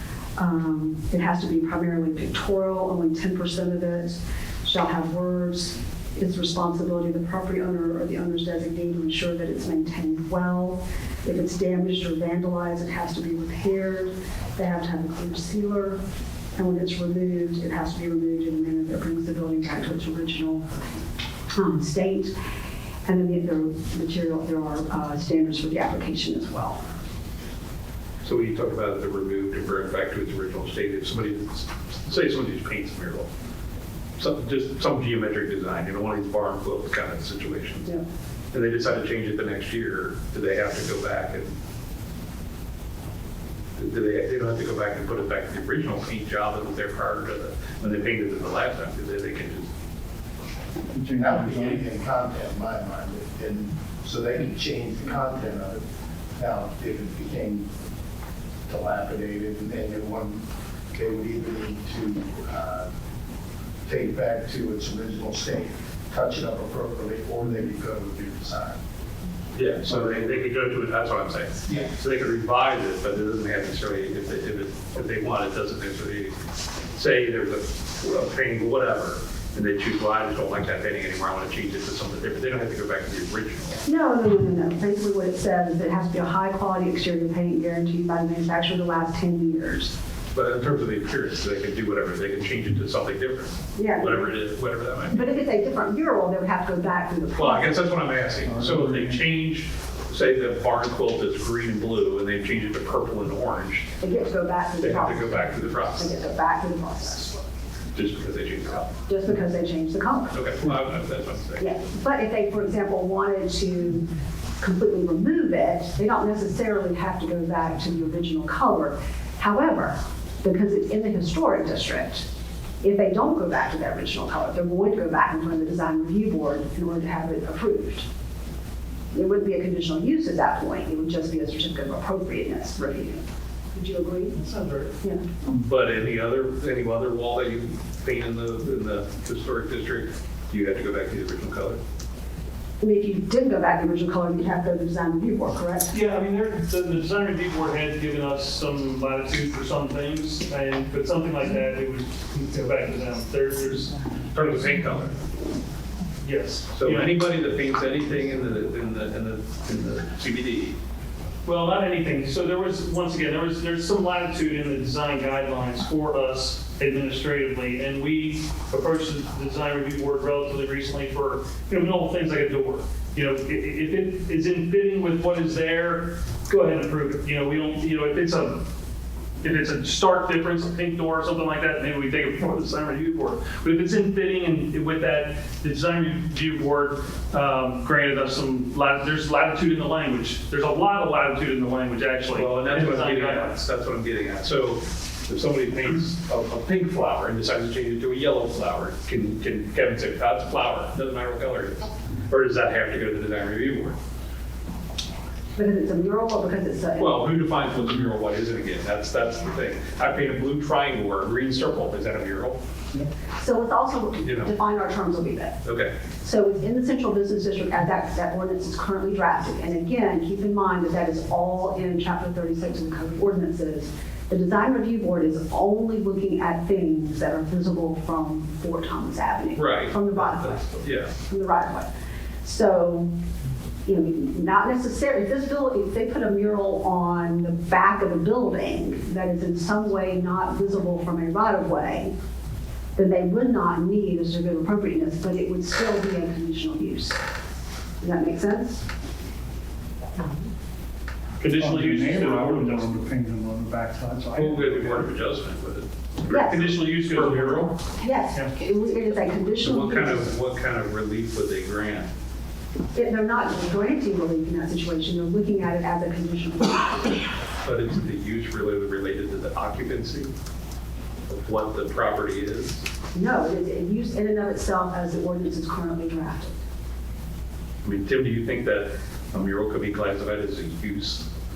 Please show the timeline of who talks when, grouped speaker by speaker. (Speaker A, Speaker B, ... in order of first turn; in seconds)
Speaker A: 0.4-16.0, 16.6-20.7, 21.5-22.3, 23.1-26.8, 83.8-90.0, 93.8-94.4, 95.1-97.8, 104.0-107.5, 109.1-110.4, 111.6-114.1, 114.6-122.3, 122.8-128.1, 129.1-134.5, 135.0-135.2, 142.8-145.9, 205.6-207.2, 213.0-215.6, 216.2-231.9, 232.4-233.1, 233.8-242.1, 243.0-247.2, 248.0-248.8, 256.3-256.6, 258.0-260.3, 262.9-267.2, 273.1-276.6
Speaker B: 28.2-33.3, 34.2-37.9, 38.5-41.5, 43.8-49.7, 69.5-76.3, 76.9-83.8, 90.3-95.2, 97.3-103.9, 104.8-106.1, 107.9-108.9, 110.3-111.7, 135.4-141.8, 154.3-155.1, 156.7-160.8, 192.3-204.0, 207.0-212.6, 214.2-214.5, 215.6-215.9, 229.6-231.1, 254.3-257.7, 259.6-262.1, 267.6-270.3, 271.3-272.8, 277.8-281.3
Speaker C: 50.9-51.8, 98.5-99.3, 251.5-255.0
Speaker D: 51.2-55.8, 56.4-57.7, 58.7-62.9, 63.9-68.8
Speaker E: 145.9-154.1, 156.2-157.2, 161.4-178.6, 179.4-193.6, 251.4-252.9, 256.3-257.8